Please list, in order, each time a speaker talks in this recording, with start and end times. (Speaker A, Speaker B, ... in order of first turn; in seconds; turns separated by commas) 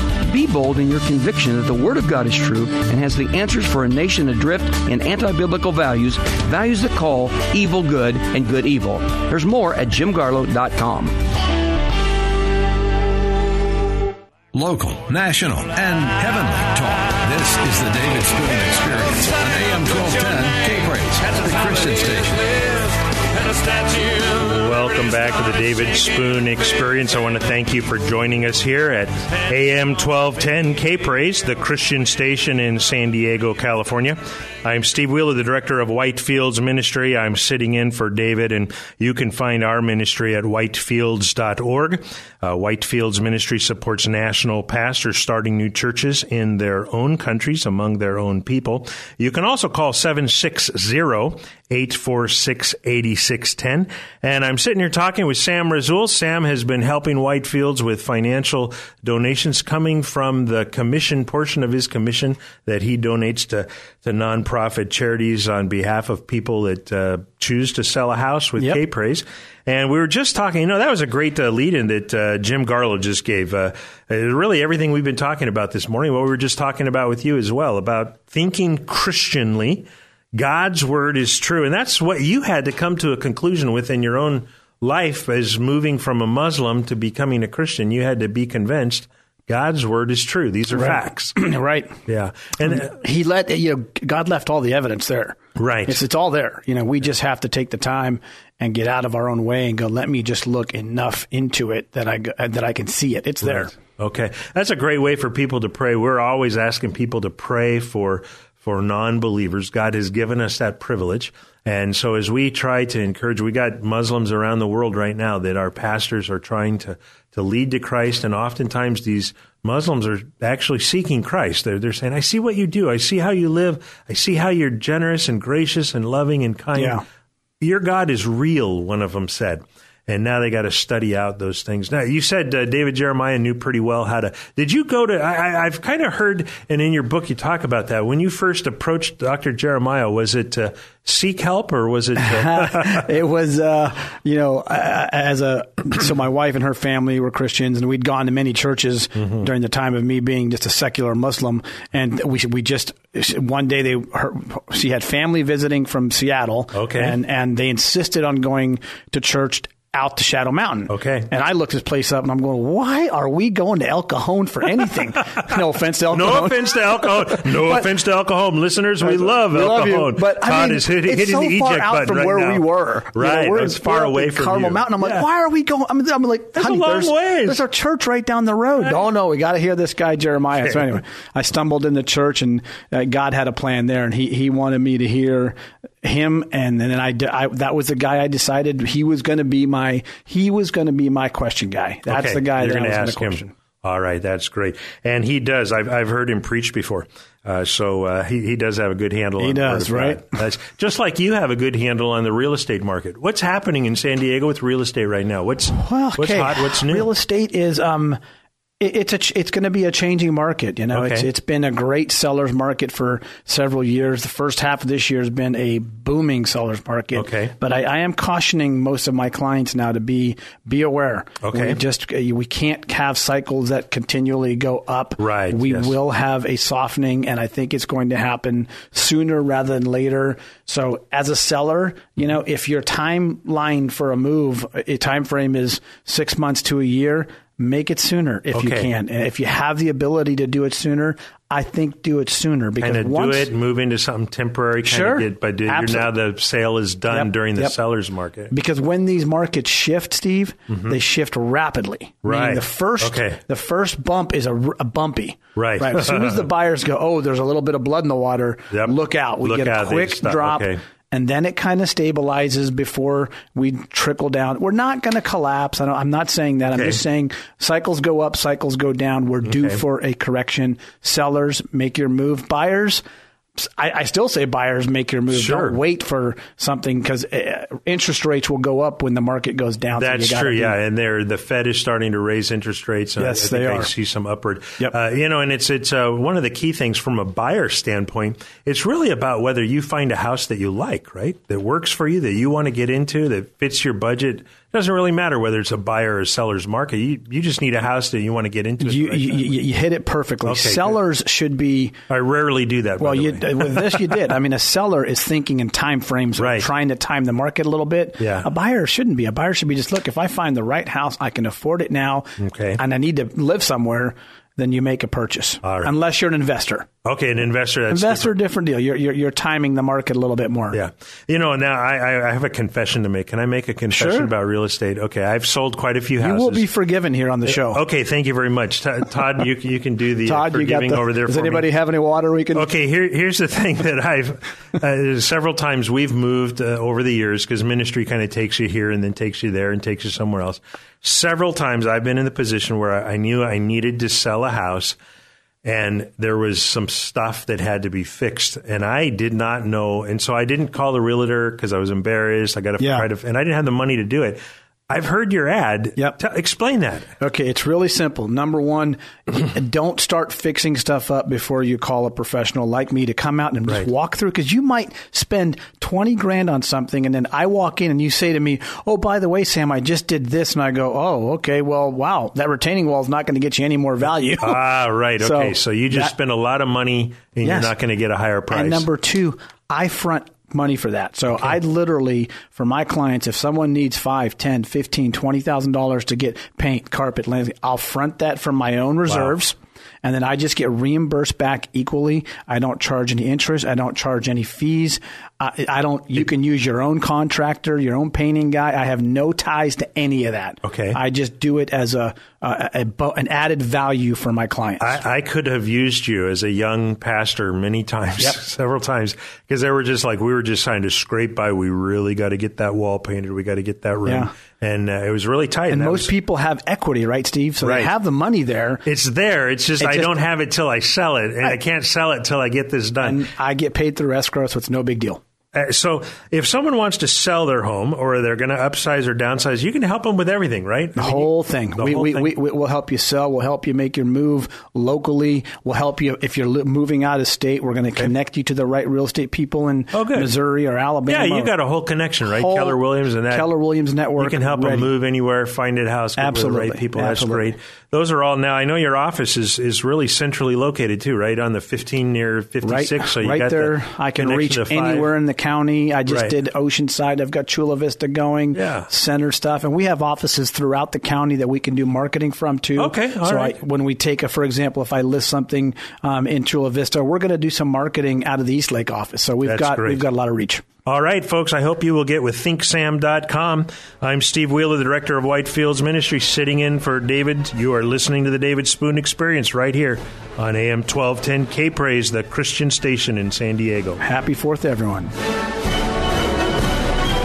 Speaker A: 0.2-11.2, Speaker B: 14.5-22.6, Speaker C: 24.2-91.4, Speaker D: 90.7-92.0, Speaker C: 92.1-92.9, Speaker D: 92.6-103.7, Speaker C: 95.5-96.0, Speaker C: 103.4-127.0, Speaker D: 126.7-127.0, Speaker C: 127.6-143.1, Speaker D: 142.2-167.9, Speaker C: 149.2-149.4, Speaker C: 156.7-157.2, Speaker C: 160.9-161.3, Speaker C: 166.1-175.2, Speaker D: 169.0-193.5, Speaker C: 176.5-177.6, Speaker C: 180.6-180.9, Speaker C: 192.1-207.1, Speaker D: 199.4-200.3, Speaker D: 205.7-208.2, Speaker D: 208.8-243.5, Speaker C: 210.9-211.3, Speaker C: 217.1-217.5, Speaker C: 221.4-221.8, Speaker C: 225.2-225.9, Speaker C: 238.5-238.9, Speaker C: 242.8-248.5, Speaker D: 244.8-246.1, Speaker D: 247.1-247.8, Speaker D: 248.5-273.0, Speaker C: 250.7-251.0, Speaker C: 252.2-253.4, Speaker C: 255.5-256.5, Speaker C: 258.7-260.8, Speaker C: 266.7-267.0, Speaker C: 269.4-269.8, Speaker D: 273.6-280.8, Speaker C: 275.3-275.8, Speaker C: 280.0-299.5, Speaker D: 283.2-283.9, Speaker D: 298.8-301.9, Speaker C: 300.4-301.0, Speaker C: 302.1-304.2, Speaker D: 303.0-316.9, Speaker C: 306.4-306.7, Speaker C: 308.2-308.5, Speaker C: 312.4-312.8, Speaker C: 315.6-315.9, Speaker C: 317.0-318.3, Speaker D: 317.9-320.8, Speaker C: 320.7-326.6, Speaker D: 323.9-324.3, Speaker D: 326.2-327.8, Speaker C: 327.5-331.7, Speaker D: 330.2-332.7, Speaker C: 332.5-345.0, Speaker C: 345.6-357.1, Speaker D: 352.8-353.1, Speaker D: 357.2-374.6, Speaker C: 374.4-378.9, Speaker D: 375.2-376.1, Speaker D: 377.4-377.7, Speaker D: 378.5-405.0, Speaker C: 389.1-389.4, Speaker C: 400.6-401.0, Speaker C: 404.8-416.1, Speaker D: 414.0-414.3, Speaker D: 415.7-418.8, Speaker C: 417.6-417.9, Speaker C: 418.8-423.2, Speaker D: 419.8-420.1, Speaker D: 423.0-425.2, Speaker C: 425.5-432.3, Speaker D: 431.0-441.5, Speaker C: 439.9-440.3, Speaker C: 441.1-443.5, Speaker D: 442.3-444.9, Speaker C: 444.2-455.1, Speaker D: 446.2-447.5, Speaker D: 452.6-470.6, Speaker C: 456.1-456.3, Speaker C: 458.5-458.9, Speaker C: 462.8-463.6, Speaker C: 469.4-470.0, Speaker C: 470.9-484.0, Speaker D: 484.0-485.1